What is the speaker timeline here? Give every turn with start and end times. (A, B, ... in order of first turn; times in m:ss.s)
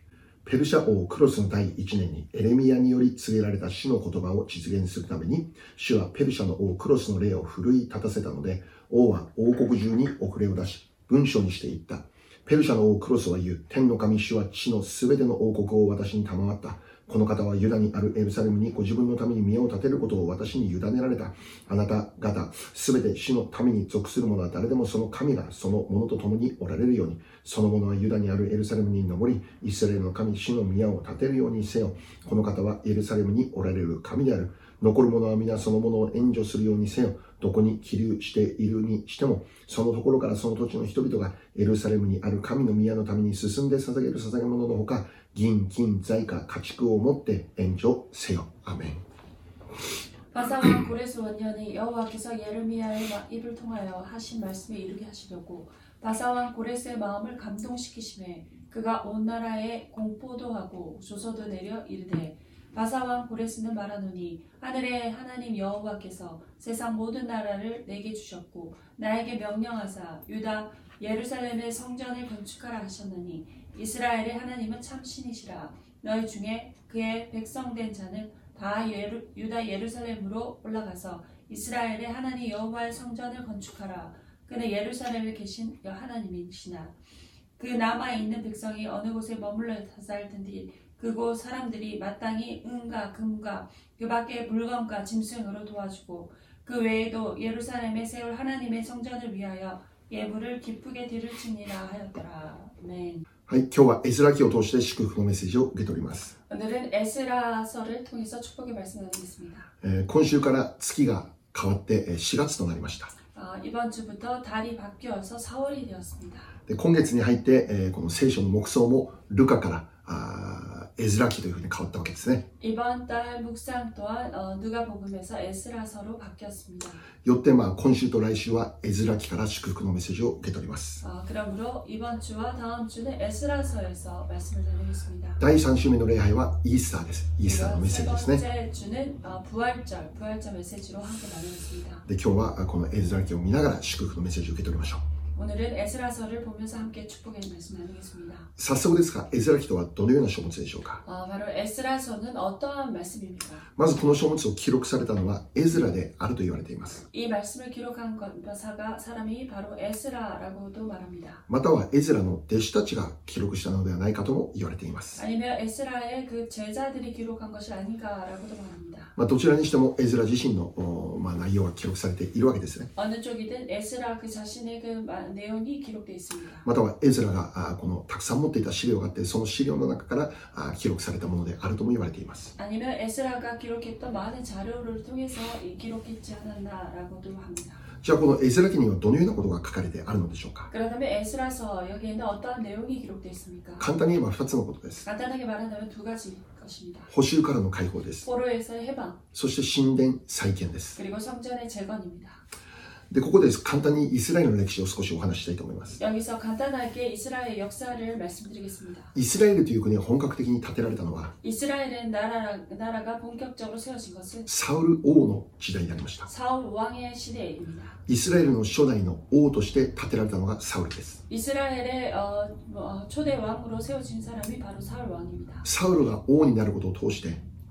0:00.4-0:49.0 A
0:50.3-1:26.9 B
1:27.6-1:43.2 B
1:43.5-1:46.4 A
1:46.5-1:49.7 B
1:49.8-1:53.1 A
1:53.3-1:56.5 B
1:56.7-2:02.5 A
2:02.6-2:07.0 B
2:07.2-2:11.0 A
2:11.0-2:15.4 B
2:15.4-2:18.4 A
2:17.4-2:22.0 B
2:22.1-2:25.0 A
2:25.4-2:28.5 B
2:28.6-2:31.0 A
2:31.0-2:33.7 B
2:33.8-2:37.0 A
2:37.1-2:41.4 B
2:41.5-2:45.2 A
2:45.2-2:49.1 B
2:49.2-2:52.9 A
2:53.0-2:56.6 B
2:56.6-3:02.5 A
3:02.6-3:07.8 B
3:08.0-3:10.7 A
3:10.7-3:13.9 B
3:13.8-3:15.0 A
3:15.0-3:17.1 B
3:17.1-3:18.3 A
3:18.2-3:19.2 B
3:19.3-3:21.0 A
3:21.0-3:22.4 B
3:23.1-3:26.0 A
3:26.0-3:29.1 B
3:29.2-3:31.3 A
3:31.4-3:34.5 B
3:34.5-3:36.3 A
3:36.3-3:38.0 B
3:38.1-3:41.2 A
3:41.3-3:45.7 B
3:45.6-3:47.4 A